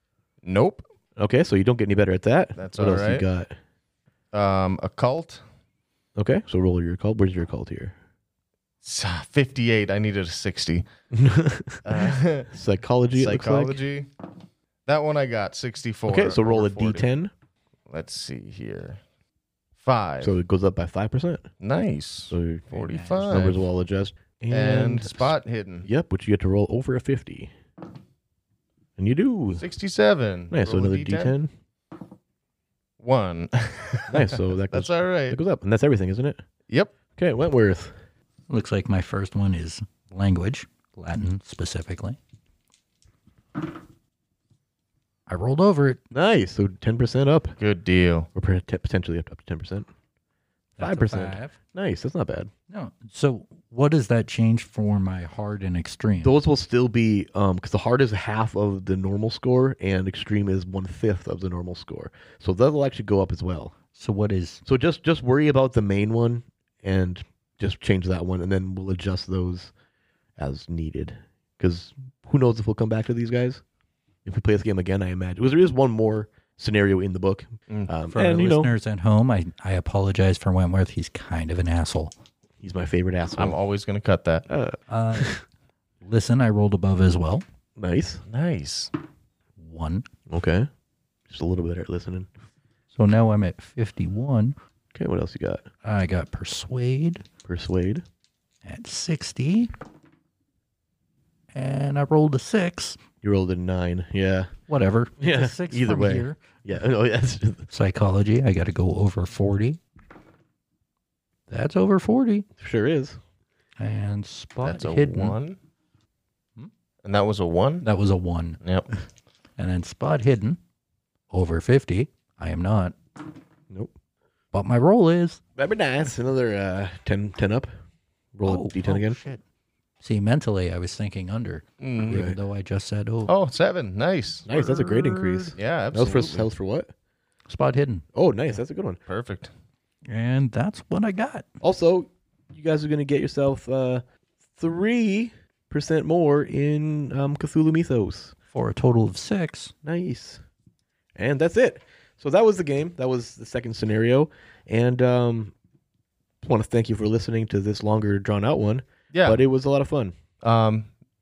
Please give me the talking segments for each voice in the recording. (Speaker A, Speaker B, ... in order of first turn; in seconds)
Speaker A: 0.4-0.9, 2.6-3.3, 4.3-5.4, 8.8-10.9, 11.8-12.5, 13.2-14.1, 14.9-17.1, 17.9-19.0, 19.8-20.4, 21.6-23.6, 24.5-25.9, 29.6-31.4, 33.0-35.4, 36.7-36.9, 47.6-48.3, 83.4-84.5, 88.3-88.9, 114.6-115.6, 117.0-117.9, 131.8-132.2, 133.3-134.5, 135.6-136.5, 139.1-139.5, 159.1-159.4, 160.4-160.9
Speaker B: 1.2-3.5, 6.2-8.0, 11.1-11.8, 12.4-13.8, 16.1-17.3, 20.2-21.5, 22.3-22.7, 23.3-27.5, 29.0-29.6, 30.5-31.5, 34.1-36.4, 37.2-37.9, 46.1-47.5, 48.4-49.9, 50.8-52.5, 56.2-63.8, 64.7-69.7, 70.4-73.6, 74.2-78.7, 82.6-83.6, 84.5-85.4, 87.8-88.2, 90.3-90.7, 91.3-92.3, 94.9-95.7, 97.5-98.0, 103.2-104.6, 105.2-107.7, 112.6-113.2, 125.6-127.7, 128.3-129.2, 132.1-132.4, 134.5-136.9, 138.1-139.0, 141.6-144.0, 144.6-148.3, 149.8-150.4, 151.2-155.5, 156.4-160.1
Speaker C: 22.7-23.4, 38.5-42.2, 45.3-46.0, 50.8-51.6, 52.7-56.4, 63.9-64.6, 78.1-82.1, 84.9-85.4, 86.0-87.4, 89.6-90.1, 93.0-94.6, 95.8-97.3, 98.7-99.7, 101.5-103.0, 104.7-106.4, 107.7-109.8, 111.5-112.5, 113.8-115.4, 117.8-118.6, 119.6-120.6, 121.3-123.0, 124.5-125.4, 128.5-129.4, 130.0-133.3, 134.5-135.5, 137.5-138.0, 140.1-141.5, 148.5-149.7